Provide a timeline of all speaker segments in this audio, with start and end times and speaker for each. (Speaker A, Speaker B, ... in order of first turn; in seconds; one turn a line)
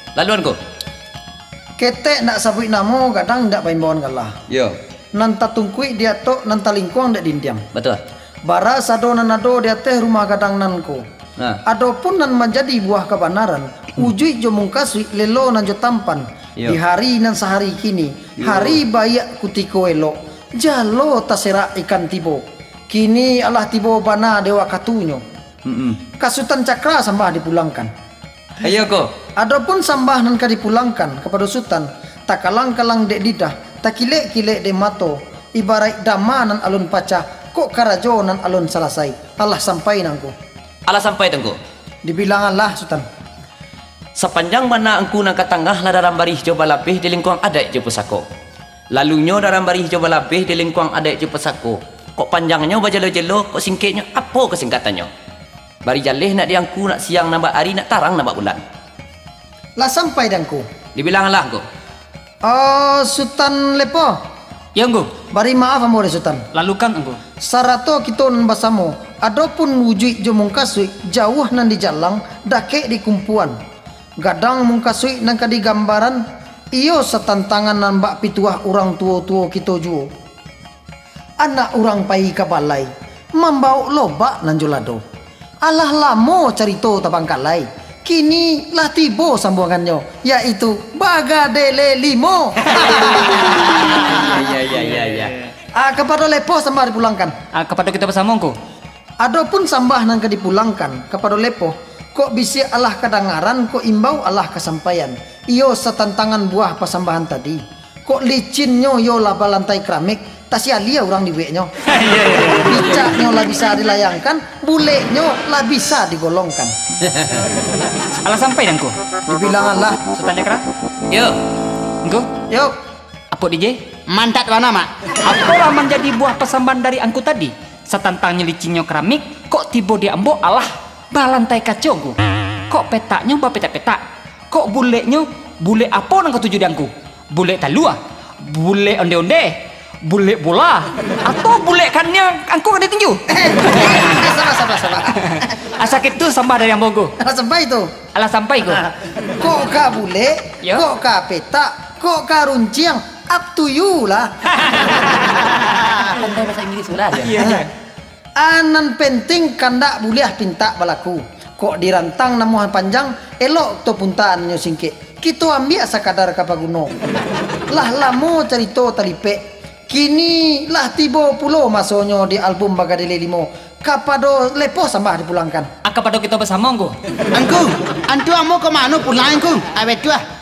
Speaker A: 0.1-0.6
Speaker B: 1.8-4.3
Speaker A: 4.5-4.8
Speaker B: 5.1-7.7
Speaker A: 7.7-8.0
Speaker B: 8.4-11.0
Speaker B: 11.7-25.2
Speaker A: 18.4-18.7
Speaker A: 25.6-26.0
Speaker B: 26.2-27.9
Speaker A: 28.6-29.1
Speaker B: 29.4-40.3
Speaker A: 40.9-41.6
Speaker B: 42.0-43.0
Speaker A: 44.1-48.2
Speaker A: 48.9-55.1
Speaker A: 55.8-58.6
Speaker B: 59.8-60.7
Speaker A: 60.9-61.6
Speaker B: 62.4-64.2
Speaker C: 64.8-65.1
Speaker B: 65.3-66.5
Speaker C: 66.5-67.2
Speaker B: 67.4-73.6
Speaker B: 74.2-76.2
Speaker B: 76.7-80.1
Speaker B: 81.4-85.0
Speaker B: 85.6-93.5
Speaker A: 93.9-95.3
Speaker B: 95.7-97.3
Speaker C: 97.5-98.5
Speaker B: 99.2-111.7
Speaker C: 111.9-112.6
Speaker B: 112.6-116.7
Speaker A: 117.2-117.4
Speaker C: 118.2-118.9
Speaker B: 119.3-120.0
Speaker C: 120.1-120.6
Speaker A: 121.1-121.4
Speaker B: 122.5-122.7
Speaker C: 123.3-123.8
Speaker D: 124.1-124.9
Speaker C: 125.2-132.2
Speaker C: 132.7-144.1
Speaker B: 143.3-145.4
Speaker C: 145.1-147.1
Speaker B: 147.2-147.9
Speaker C: 148.1-148.8
Speaker B: 149.1-154.8
Speaker A: 155.9-157.4
Speaker C: 157.1-157.7
Speaker B: 157.4-157.7
Speaker B: 158.4-166.9
Speaker B: 167.7-175.7
Speaker C: 175.8-176.9
Speaker D: 177.3-180.2